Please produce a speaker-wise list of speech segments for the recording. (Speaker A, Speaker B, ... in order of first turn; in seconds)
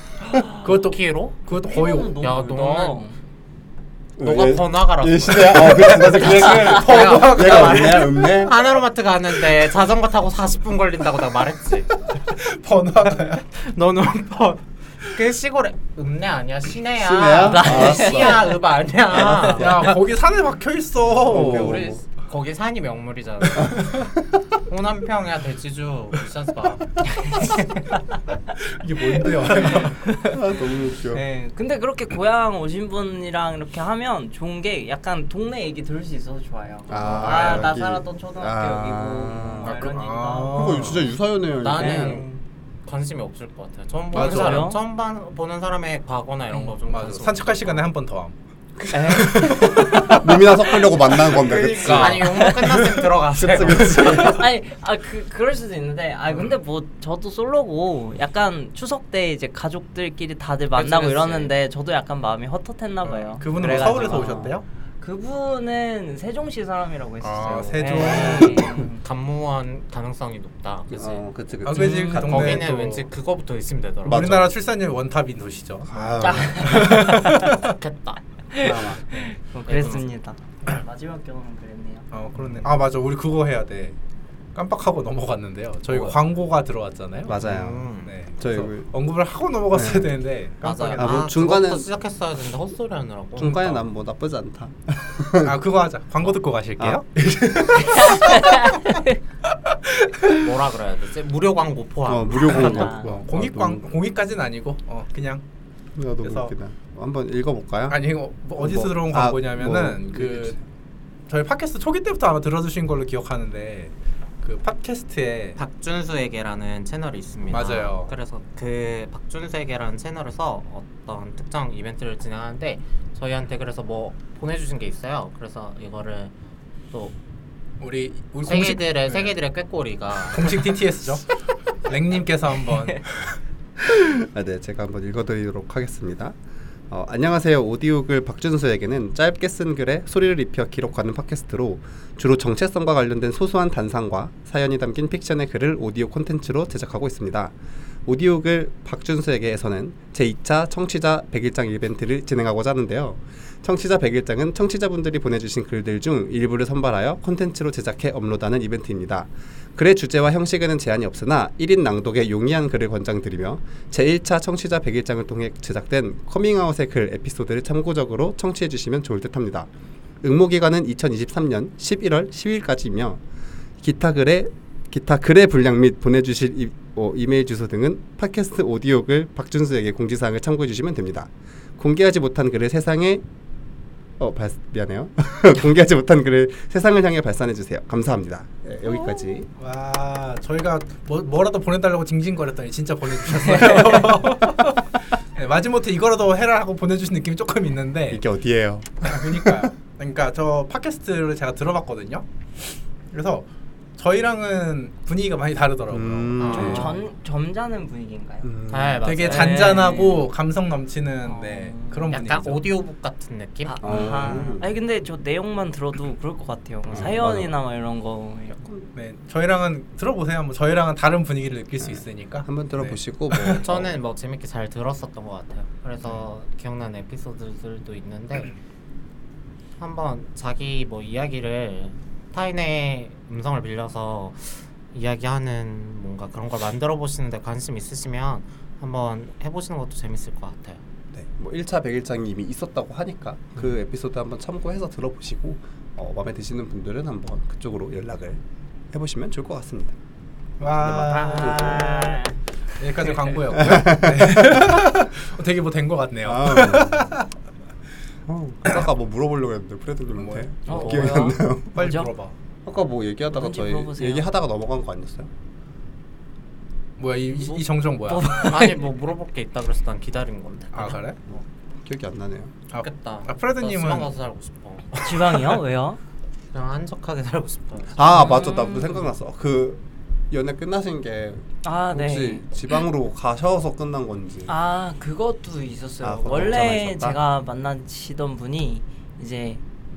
Speaker A: 0.5-2.2, 6.3-8.1, 12.2-13.4, 19.1-21.9, 28.6-30.0, 39.4-41.1, 44.1-44.7, 46.8-48.3, 49.1-52.9, 63.0-64.6, 67.2-68.8, 71.6-73.0, 74.0-77.7, 82.1-84.0, 84.5-87.5, 88.0-91.3, 95.4-98.7, 99.7-100.5, 102.5-105.4, 106.2-106.5, 107.9-110.6, 111.3-115.6, 117.5-118.1, 127.8-129.3, 130.3-131.3, 131.8-133.1, 189.6-198.2, 199.0-202.2, 203.1-203.4, 204.0-206.8, 209.0-212.7, 218.9-223.6, 250.6-251.9, 252.8-257.3, 260.2-261.2, 261.7-262.3, 267.0-268.4, 270.7-271.2, 272.7-274.1
Speaker B: 0.7-1.3, 2.2-3.0, 4.2-11.9, 13.5-19.9, 21.2-24.1, 24.6-26.9, 37.0-37.8, 41.6-42.3, 42.8-47.8, 51.3-54.4, 60.7-61.5, 68.1-71.2, 72.2-74.4, 77.5-78.2, 79.1-80.0, 87.4-88.1, 90.6-93.8, 100.3-103.0, 115.6-126.3, 128.4-130.7, 206.4-206.9, 208.7-209.9, 212.1-214.5, 223.6-228.6, 229.8-240.8, 268.4-271.4, 272.8-275.6, 276.5-278.2
Speaker C: 1.5-3.2, 17.4-18.5, 19.1-19.6, 27.2-28.2, 29.2-40.9, 41.8-42.4, 44.1-44.8, 48.9-50.2, 53.9-69.0, 71.7-72.4, 76.2-77.5, 78.5-82.1, 98.0-99.2, 102.5-103.1, 193.5-194.2, 206.5-208.5, 209.2-210.3, 211.2-212.1, 213.7-218.6, 250.8-252.4, 260.7-262.1, 263.3-264.3, 267.3-268.9, 274.9-276.0, 278.1-279.0, 281.6-282.5, 284.5-289.6
Speaker D: 4.2-8.5, 16.9-18.5, 21.3-22.0, 30.2-31.2, 36.9-39.8, 40.5-42.2, 48.8-52.5, 53.3-54.5, 63.6-64.5, 70.9-72.8, 74.0-74.5, 75.9-77.0, 78.6-79.0, 85.9-86.2, 87.3-88.9, 89.7-90.1, 90.9-91.9, 93.4-95.6, 96.8-98.0, 102.1-103.8, 106.0-108.0, 108.6-110.6, 133.8-136.3, 136.9-147.5, 148.1-169.7, 170.2-173.2, 173.8-183.2, 184.2-189.5, 198.1-199.7, 205.9-206.9, 208.4-209.1, 213.8-214.7, 216.9-217.5, 218.5-218.8, 221.8-223.9, 241.1-248.4, 248.9-249.9, 250.6-252.2, 253.5-255.0, 256.2-257.1, 258.2-261.8, 262.6-265.3, 271.8-272.5, 277.9-284.5, 286.0-287.2